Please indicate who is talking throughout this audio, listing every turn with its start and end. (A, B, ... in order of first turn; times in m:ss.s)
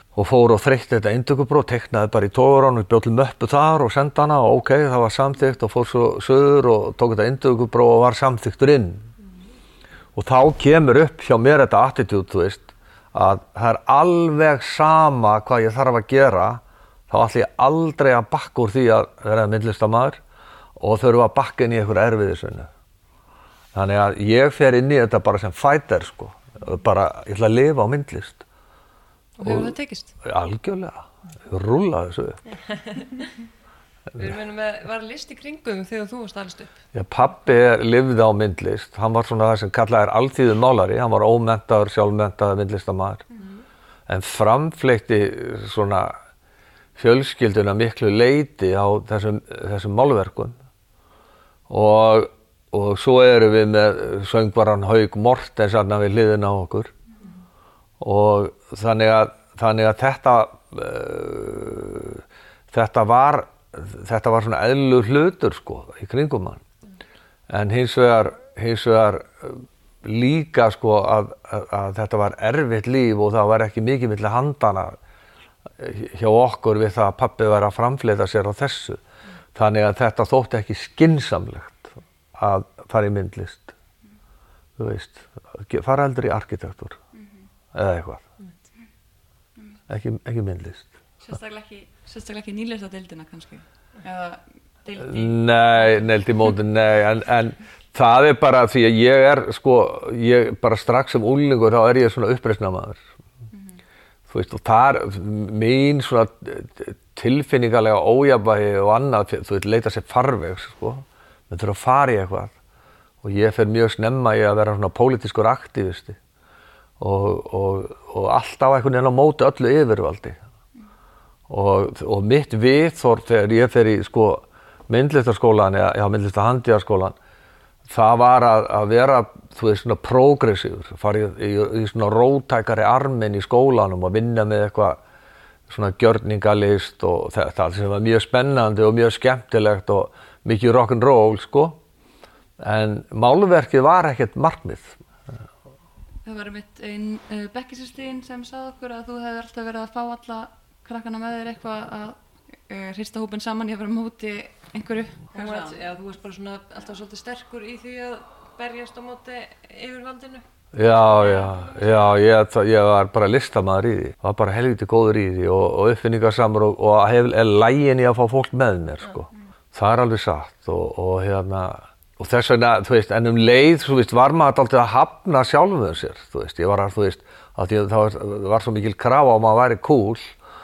0:00.2-0:09.1 A
0:10.2-0:20.2 A
0:20.8-0:22.7 A
0:23.7-0:28.4 A
0:29.4-0:30.1 B
0:29.4-0:32.4 A
0:32.9-0:33.3 B
0:34.2-0:36.8 B
0:36.9-0:43.2 A
0:44.1-0:46.2 A
0:47.0-0:50.6 A
0:51.7-0:56.9 A
0:58.0-1:06.6 A
1:07.5-1:15.0 A
1:15.8-1:19.0 A
1:19.6-1:23.7 A
1:24.8-1:27.0 A
1:27.2-1:27.4 C
1:27.7-1:28.2 A
1:29.9-1:30.9 A
1:31.2-1:36.1 C
1:35.0-1:43.0 A
1:43.5-1:43.8 C
1:44.3-1:52.5 A
1:53.2-1:56.2 A
1:57.0-2:00.4 A
2:01.5-2:07.2 A
2:07.9-2:15.0 A
2:15.7-2:21.8 A
2:22.6-2:25.0 A
2:26.2-2:35.8 C
2:35.3-2:40.4 B
2:40.7-3:00.3 A
2:41.1-2:42.2 B